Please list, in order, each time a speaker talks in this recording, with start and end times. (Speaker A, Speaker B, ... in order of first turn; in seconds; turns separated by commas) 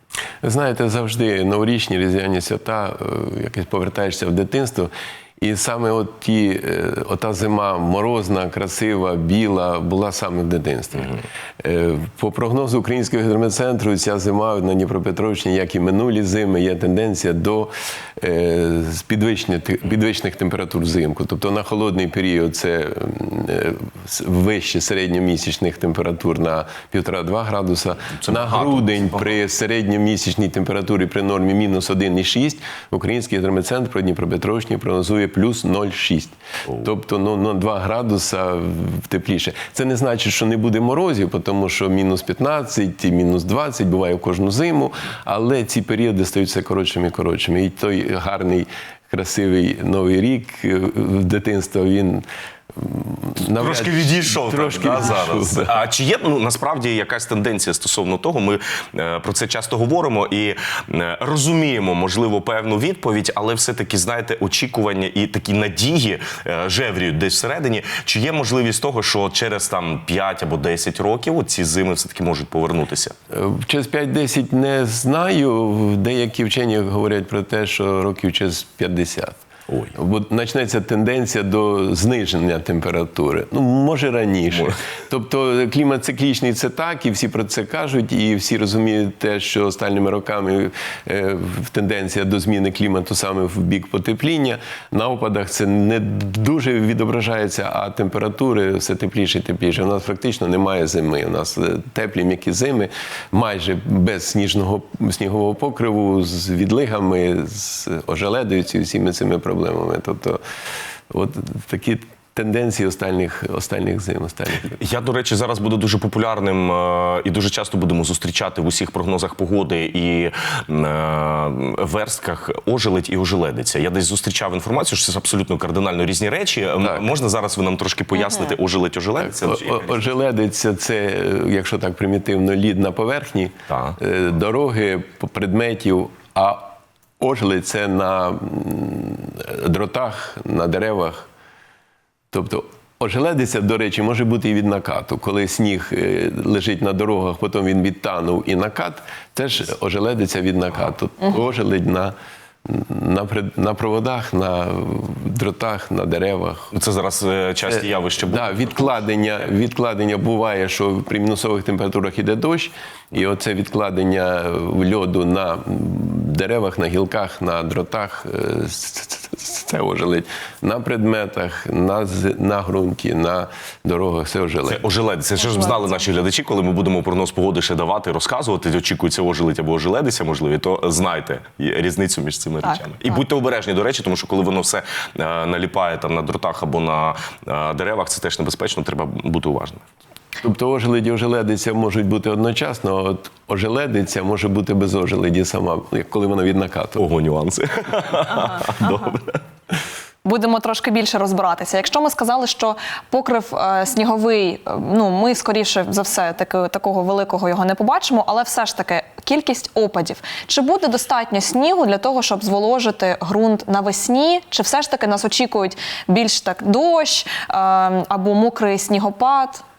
Speaker A: 0.4-55.8, Speaker B: 28.1-29.4, Speaker B: 53.5-73.2, Speaker A: 73.3-79.4, Speaker B: 79.7-80.0, Speaker A: 80.0-110.4, Speaker A: 111.1-114.8, Speaker B: 114.7-130.1, Speaker A: 126.8-127.1, Speaker A: 129.2-141.3, Speaker B: 133.7-134.0, Speaker A: 142.3-152.1, Speaker A: 152.7-156.7, Speaker B: 156.7-159.0, Speaker A: 157.7-174.8, Speaker B: 174.7-189.8, Speaker C: 175.4-175.8, Speaker A: 190.4-197.0, Speaker B: 197.0-199.4, Speaker C: 198.5-199.1, Speaker C: 200.2-219.6